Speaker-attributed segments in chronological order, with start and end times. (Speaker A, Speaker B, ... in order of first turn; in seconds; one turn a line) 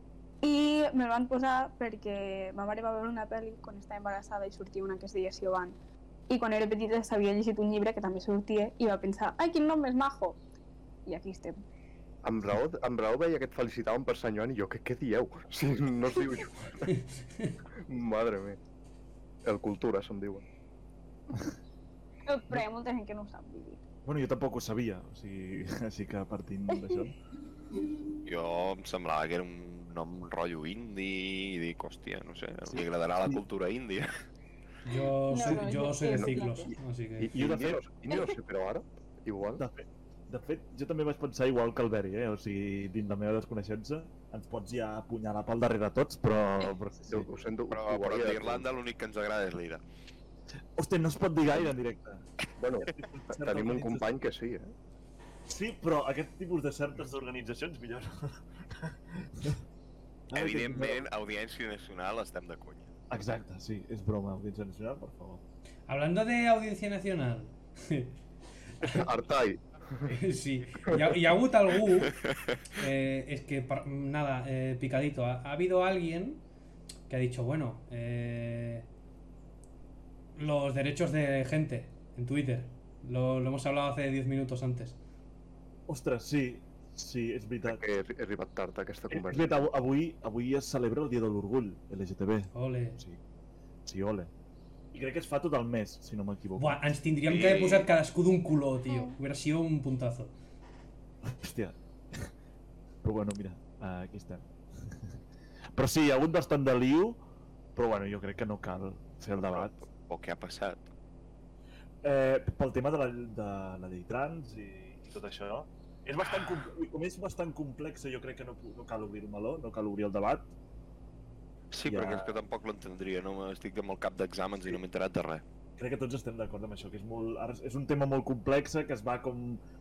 Speaker A: 0.4-5.8
Speaker A: 6.3-10.4
Speaker A: 11.1-11.6
Speaker B: 12.2-16.8
Speaker C: 16.9-17.6
Speaker B: 17.9-18.6
Speaker B: 19.4-20.4
Speaker A: 22.2-23.8
Speaker D: 24.1-27.1
Speaker E: 28.2-34.1
Speaker C: 34.8-37.3
Speaker A: 35.3-36.7
Speaker B: 36.1-36.5
Speaker B: 37.2-39.6
Speaker D: 37.3-37.8
Speaker A: 38.1-38.3
Speaker D: 39.5-47.3
Speaker B: 47.1-48.7
Speaker E: 47.7-49.8
Speaker D: 50.8-52.2
Speaker B: 52.6-54.7
Speaker D: 52.9-54.1
Speaker D: 55.5-59.6
Speaker D: 60.3-61.1
Speaker E: 60.3-62.9
Speaker D: 63.1-65.4
Speaker C: 65.9-68.1
Speaker C: 68.8-69.0
Speaker B: 68.8-70.1
Speaker C: 70.1-72.2
Speaker B: 70.9-71.2
Speaker E: 72.1-72.4
Speaker C: 72.7-76.4
Speaker C: 77.1-78.9
Speaker C: 80.3-85.0
Speaker D: 85.9-87.8
Speaker B: 87.7-89.5
Speaker D: 89.1-93.2
Speaker C: 92.5-93.0
Speaker D: 93.8-94.3
Speaker D: 94.9-96.8
Speaker C: 96.6-100.3
Speaker E: 97.3-97.9
Speaker A: 98.9-99.2
Speaker D: 101.2-102.3
Speaker D: 103.0-105.1
Speaker D: 105.7-107.2
Speaker D: 107.8-109.7
Speaker E: 109.3-110.9
Speaker D: 112.0-120.5
Speaker E: 121.7-125.4
Speaker D: 121.8-122.4
Speaker D: 125.8-129.6